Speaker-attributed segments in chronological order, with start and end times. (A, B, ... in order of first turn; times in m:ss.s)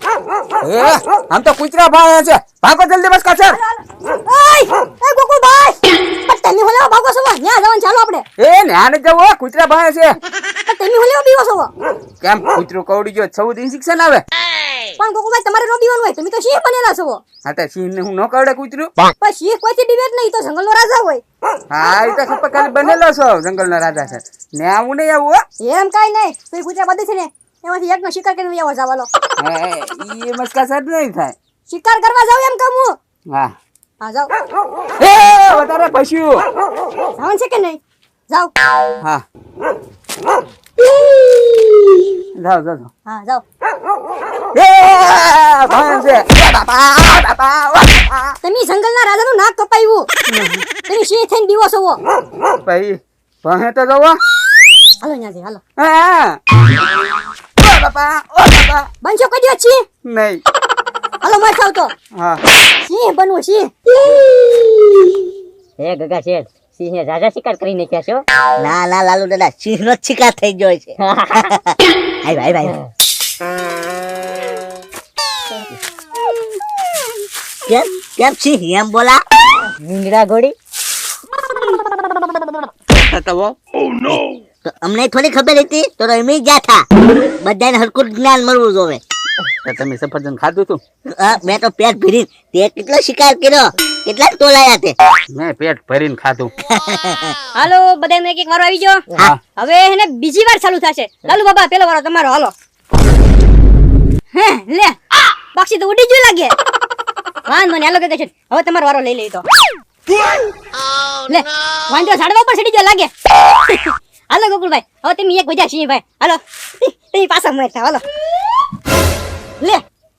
0:00.6-0:03.6 A
0:03.5-0:08.2 B
0:08.4-0:10.2 A
0:10.7-0:11.7 B
0:12.2-0:14.2 A
0:15.0-0:17.2 B
0:17.4-0:18.9 A
0:19.2-0:21.2 B
0:21.7-0:25.4 A
0:25.6-0:29.1 B
0:29.4-0:31.4 A
0:31.7-0:33.0 B
0:34.0-0:34.3 B
0:35.0-0:36.4 A
0:37.2-0:38.5 B
0:42.4-0:42.9 A
0:43.1-0:43.4 B
0:44.5-0:48.4 A
0:48.4-0:50.1 B
0:50.3-0:50.6 A
0:50.9-0:52.0 B
0:52.7-0:54.2 A
0:55.0-0:55.6 B
0:55.8-0:56.4 A
0:57.6-0:58.9 A
0:59.0-0:59.8 B
1:00.1-1:00.4 A
1:01.2-1:01.9 B
1:02.2-1:02.4 A
1:02.8-1:03.7 B
1:05.8-1:08.2 C
1:08.6-1:11.0 D
1:11.0-1:11.6 C
1:11.5-1:12.8 D
1:17.7-1:19.2 D
1:19.8-1:20.6 C
1:22.9-1:23.6 A
1:24.1-1:26.8 D
1:27.4-1:29.0 D
1:29.6-1:30.8 A
1:31.1-1:34.9 D
1:35.3-1:36.5 A
1:36.7-1:37.4 D
1:37.6-1:39.0 B
1:39.6-1:42.5 B
1:44.3-1:45.0 B
1:45.5-1:46.5 B
1:47.5-1:49.4 B
1:51.3-1:53.1 B
1:53.7-1:58.0 B